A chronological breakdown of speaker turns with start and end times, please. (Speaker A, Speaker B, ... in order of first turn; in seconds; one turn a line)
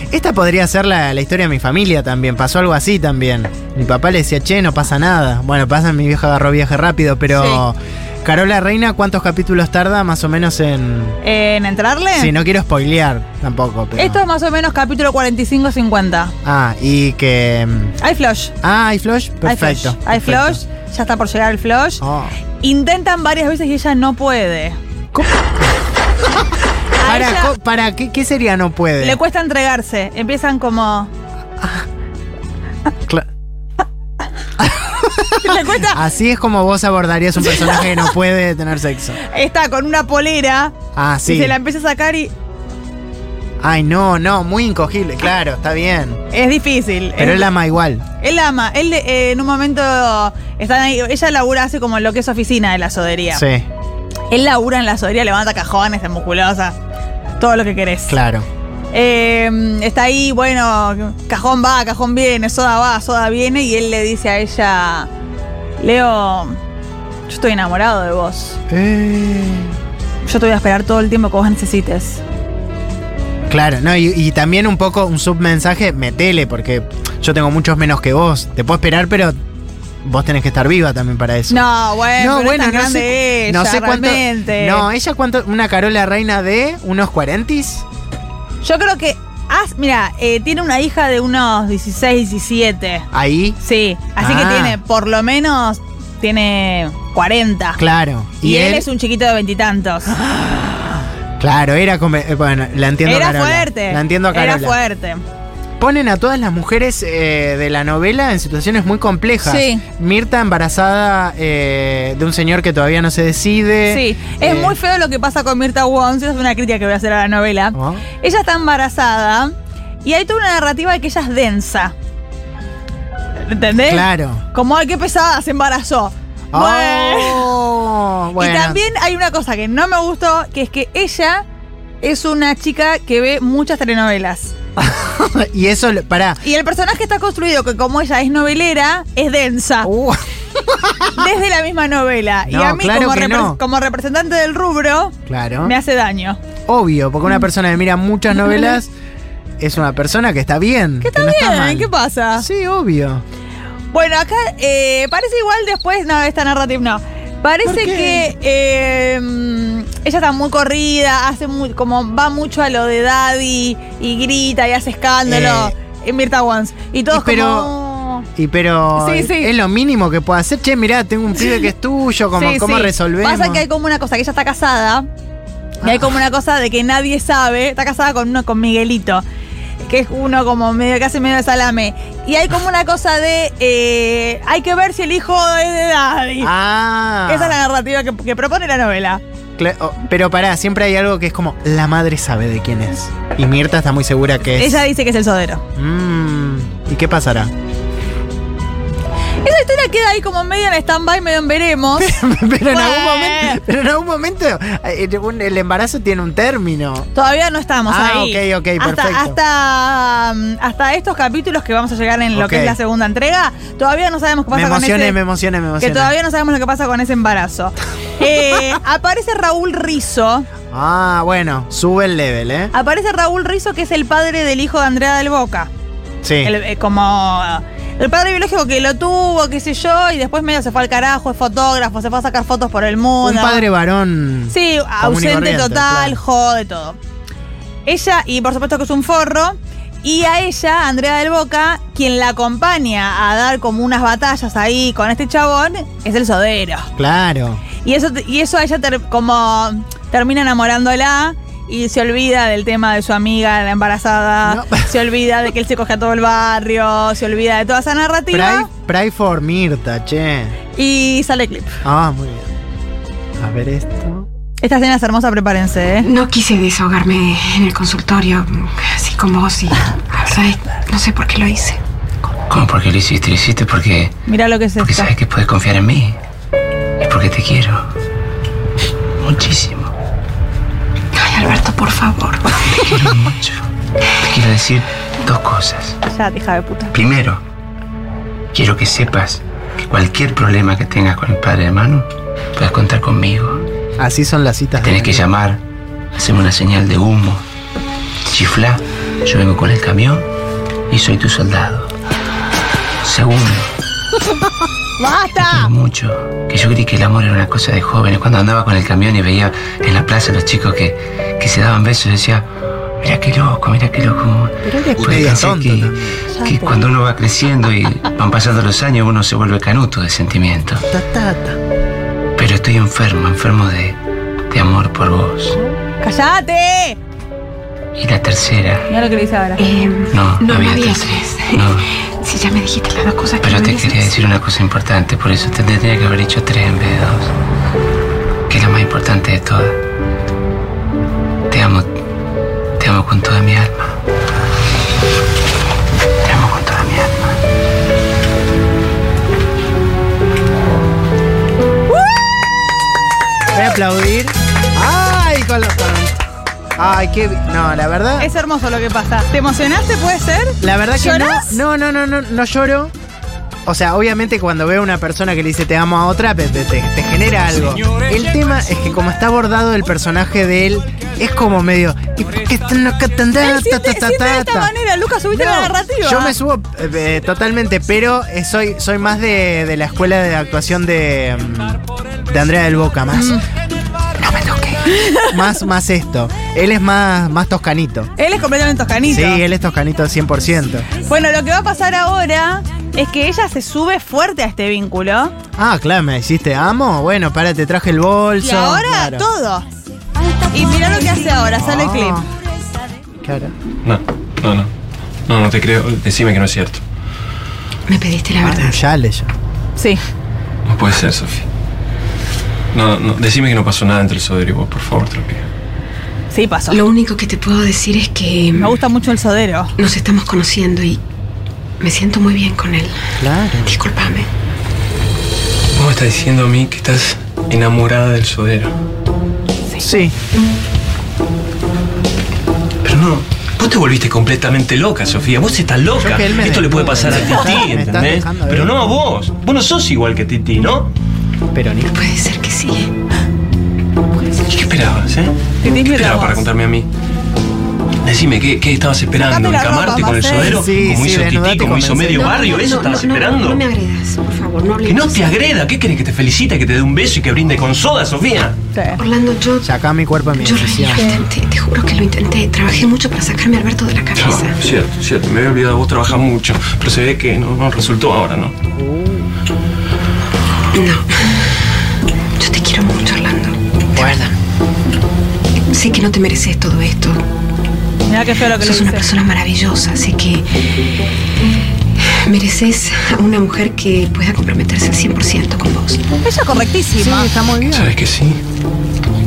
Speaker A: 0.1-11.2
Speaker B: 7.3-7.6
Speaker B: 11.2-12.3
Speaker A: 12.1-14.2
Speaker B: 13.9-16.3
Speaker A: 16.4-17.9
Speaker B: 18.0-18.5
Speaker A: 18.6-20.6
Speaker B: 19.4-22.0
Speaker A: 22.0-22.3
Speaker B: 22.6-24.8
Speaker A: 25.1-25.7
Speaker B: 27.0-27.5
Speaker A: 27.0-29.2
Speaker B: 29.0-31.1
Speaker A: 31.6-31.8
Speaker A: 34.6-39.2
Speaker B: 35.4-36.0
Speaker B: 37.5-38.1
Speaker B: 39.3-40.7
Speaker A: 40.9-41.6
Speaker B: 41.2-42.3
Speaker A: 43.6-46.2
Speaker B: 46.3-47.5
Speaker A: 47.2-48.0
Speaker B: 48.2-53.4
Speaker A: 53.3-53.6
Speaker B: 54.3-56.8
Speaker B: 57.4-58.2
Speaker A: 58.1-58.5
Speaker B: 58.9-65.1
Speaker B: 65.8-66.6
Speaker B: 67.3-68.6
Speaker A: 68.7-69.7
Speaker B: 70.2-72.2
Speaker A: 73.5-79.3
Speaker A: 80.0-81.6
Speaker B: 81.5-84.9
Speaker A: 82.1-87.8
Speaker B: 88.6-93.1
Speaker A: 93.1-93.6
Speaker B: 93.6-97.8
Speaker A: 94.2-94.8
Speaker A: 97.8-98.9
Speaker B: 98.4-100.2
Speaker A: 101.4-104.8
Speaker B: 103.0-105.2
Speaker A: 105.8-114.8
Speaker B: 109.4-109.8
Speaker B: 113.9-121.9
Speaker A: 117.7-118.0
Speaker B: 123.4-127.5
Speaker A: 123.9-124.4
Speaker A: 126.5-128.8
Speaker B: 128.4-131.4
Speaker B: 132.0-134.5
Speaker A: 134.8-136.4
Speaker B: 136.4-139.9
Speaker A: 139.8-141.2
Speaker B: 141.1-146.4
Speaker A: 142.5-143.6
Speaker A: 145.3-145.7
Speaker A: 146.7-148.9
Speaker B: 148.3-148.8
Speaker A: 149.6-153.2
Speaker B: 151.0-152.5
Speaker B: 153.9-168.3
Speaker A: 157.6-158.3
Speaker A: 165.2-165.7
Speaker A: 167.1-167.7
Speaker A: 168.3-173.6
Speaker B: 168.9-169.5
Speaker B: 172.3-175.1
Speaker A: 175.8-176.1
Speaker B: 175.8-179.2
Speaker B: 179.8-186.5
Speaker A: 186.4-187.6
Speaker B: 187.2-189.2
Speaker A: 189.6-194.8
Speaker B: 194.4-195.6
Speaker A: 195.8-197.5
Speaker B: 199.4-202.2
Speaker A: 201.9-207.1
Speaker B: 202.7-203.6
Speaker B: 207.1-215.2
Speaker A: 207.9-209.4
Speaker A: 212.3-212.8
Speaker A: 214.5-216.1
Speaker B: 215.8-220.5
Speaker A: 220.7-222.7
Speaker B: 222.7-225.7
Speaker A: 226.2-226.5
Speaker B: 226.4-233.6
Speaker A: 233.2-236.2
Speaker B: 234.5-237.0
Speaker B: 237.8-246.9
Speaker A: 247.0-247.6
Speaker B: 247.8-258.7
Speaker A: 254.4-254.9
Speaker A: 258.3-260.6
Speaker B: 260.8-261.8
Speaker A: 261.8-262.5
Speaker A: 263.4-264.3
Speaker B: 264.6-266.1
Speaker C: 266.0-271.8
Speaker D: 272.5-274.1
Speaker B: 274.3-275.1
Speaker D: 274.8-276.2
Speaker D: 277.0-277.8
Speaker D: 279.2-279.9
Speaker C: 281.1-282.8
Speaker D: 282.6-283.6
Speaker D: 284.2-286.0
Speaker B: 286.0-286.9
Speaker D: 286.9-287.4
Speaker D: 288.5-293.7
Speaker A: 294.0-295.2
Speaker D: 294.8-295.6
Speaker D: 296.1-297.4
Speaker D: 298.2-300.3
Speaker D: 300.9-301.9
Speaker D: 303.0-303.7
Speaker B: 305.0-305.7
Speaker D: 305.3-312.5
Speaker D: 313.0-320.9
Speaker A: 314.6-316.3
Speaker B: 316.3-316.8
Speaker A: 320.9-321.6
Speaker D: 322.4-324.0
Speaker D: 324.5-325.6
Speaker B: 326.0-327.0
Speaker D: 328.0-328.9
Speaker B: 328.9-329.6
Speaker C: 329.6-334.3
Speaker D: 330.1-331.8
Speaker D: 333.4-337.3
Speaker D: 338.5-339.8
Speaker D: 341.5-341.9
Speaker D: 342.8-343.9
Speaker D: 346.2-347.4
Speaker B: 351.9-352.2
Speaker A: 353.5-356.2
Speaker A: 356.8-358.3
Speaker B: 358.2-361.6
Speaker A: 360.6-362.9
Speaker A: 363.6-374.7
Speaker B: 373.4-376.3
Speaker A: 375.3-383.4
Speaker B: 383.1-383.4
Speaker A: 384.2-388.1
Speaker B: 384.9-385.4
Speaker B: 388.2-389.4
Speaker A: 389.1-390.9
Speaker B: 391.0-395.3
Speaker A: 395.6-399.3
Speaker B: 398.4-399.7
Speaker B: 400.5-402.2
Speaker A: 401.6-402.2
Speaker A: 403.2-403.5
Speaker E: 403.8-404.7
Speaker E: 405.3-406.8
Speaker C: 407.9-408.8
Speaker A: 408.4-409.3
Speaker B: 409.8-410.0
Speaker E: 410.6-411.4
Speaker E: 412.7-415.5
Speaker B: 416.3-416.8
Speaker C: 416.7-418.8
Speaker B: 418.5-419.7
Speaker C: 419.8-421.0
Speaker C: 421.8-423.1
Speaker A: 423.2-423.8
Speaker C: 423.6-424.3
Speaker E: 425.7-428.7
Speaker A: 429.8-430.1
Speaker E: 432.8-440.9
Speaker A: 435.9-438.8
Speaker A: 441.5-442.0
Speaker C: 441.9-442.9
Speaker E: 444.5-446.9
Speaker B: 445.6-446.4
Speaker E: 448.0-453.6
Speaker B: 449.2-450.6
Speaker A: 450.4-452.4
Speaker C: 452.1-455.4
Speaker E: 454.8-458.6
Speaker B: 458.7-459.0
Speaker C: 459.0-459.7
Speaker A: 459.6-461.2
Speaker C: 460.4-464.6
Speaker E: 464.1-468.5
Speaker A: 468.8-469.3
Speaker C: 470.7-471.9
Speaker C: 472.4-474.3
Speaker A: 473.9-474.3
Speaker C: 475.7-477.2
Speaker B: 478.1-479.1
Speaker C: 478.6-480.6
Speaker C: 482.0-486.0
Speaker B: 486.2-487.3
Speaker A: 486.9-487.9
Speaker E: 487.7-488.4